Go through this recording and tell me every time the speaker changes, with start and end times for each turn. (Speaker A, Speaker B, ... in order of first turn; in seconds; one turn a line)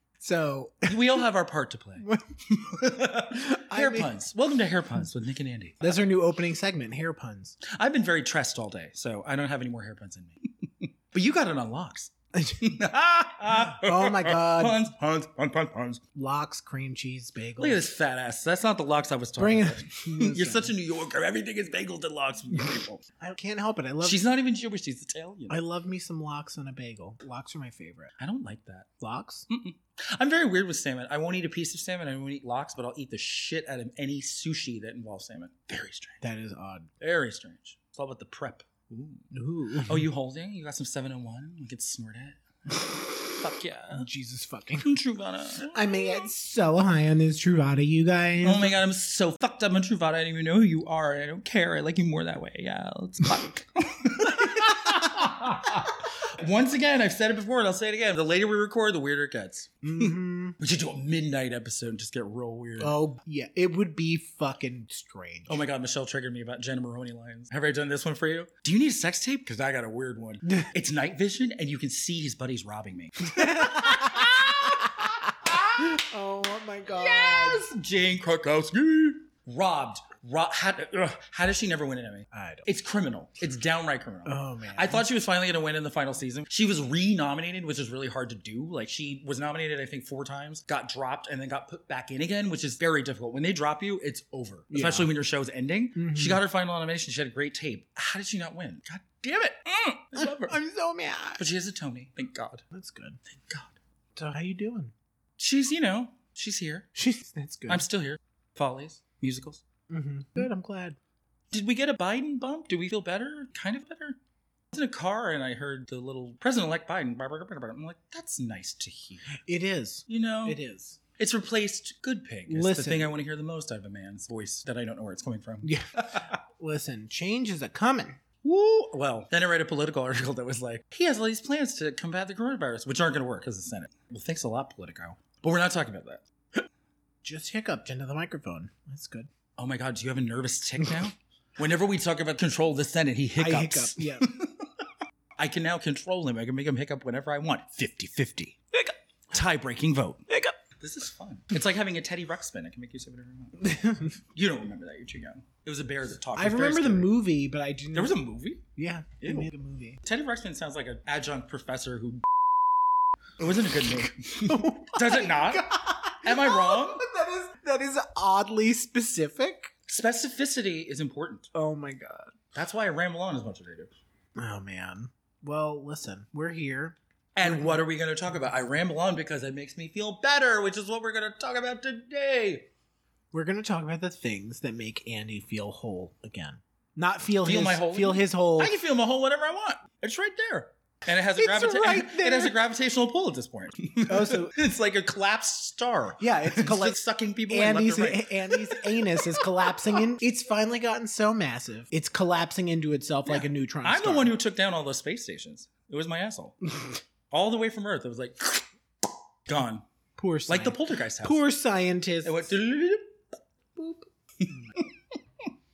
Speaker A: 0.2-1.2
Speaker B: 0.9-6.0
Speaker A: 2.0-2.3
Speaker A: 3.3-4.1
Speaker A: 5.8-7.6
Speaker B: 7.6-16.0
Speaker A: 12.3-12.8
Speaker A: 13.5-14.8
Speaker A: 16.1-17.9
Speaker B: 17.6-23.0
Speaker A: 19.4-20.7
Speaker A: 23.2-24.2
Speaker B: 24.0-25.6
Speaker A: 25.5-28.1
Speaker B: 28.2-28.9
Speaker A: 29.0-29.5
Speaker B: 29.5-36.2
Speaker A: 36.2-36.9
Speaker B: 37.0-44.1
Speaker A: 39.3-40.0
Speaker A: 43.9-44.9
Speaker B: 44.8-46.3
Speaker A: 45.7-48.7
Speaker B: 48.4-62.9
Speaker A: 59.8-60.6
Speaker A: 62.8-65.6
Speaker B: 65.5-76.0
Speaker A: 73.3-77.6
Speaker B: 76.9-100.6
Speaker A: 82.3-82.7
Speaker A: 84.2-85.0
Speaker A: 94.7-95.1
Speaker A: 95.9-96.4
Speaker A: 100.1-101.4
Speaker B: 101.4-102.6
Speaker A: 102.7-103.2
Speaker B: 103.3-103.8
Speaker A: 104.2-104.9
Speaker B: 105.4-106.9
Speaker A: 106.9-107.8
Speaker B: 107.7-109.6
Speaker A: 109.9-111.0
Speaker B: 111.5-114.2
Speaker B: 114.7-119.4
Speaker A: 119.4-121.0
Speaker B: 120.1-120.6
Speaker B: 121.2-126.3
Speaker A: 122.5-123.1
Speaker A: 125.6-128.2
Speaker B: 128.4-136.6
Speaker A: 137.2-139.3
Speaker B: 139.6-153.7
Speaker A: 143.4-144.3
Speaker A: 153.6-154.2
Speaker B: 154.3-157.2
Speaker A: 156.3-158.2
Speaker B: 157.9-158.6
Speaker A: 158.7-160.0
Speaker B: 159.2-159.5
Speaker B: 160.0-162.2
Speaker B: 163.4-165.7
Speaker A: 164.4-169.7
Speaker B: 166.2-167.0
Speaker B: 169.9-171.5
Speaker A: 171.5-172.3
Speaker B: 172.5-173.9
Speaker A: 174.3-177.8
Speaker B: 177.3-182.7
Speaker A: 183.3-188.7
Speaker B: 187.4-200.0
Speaker A: 191.3-192.6
Speaker A: 194.1-194.6
Speaker A: 196.2-204.3
Speaker B: 203.3-206.6
Speaker B: 207.3-208.7
Speaker B: 209.5-209.8
Speaker A: 210.2-212.5
Speaker B: 210.5-211.4
Speaker B: 212.2-213.2
Speaker B: 213.8-215.5
Speaker A: 214.5-214.8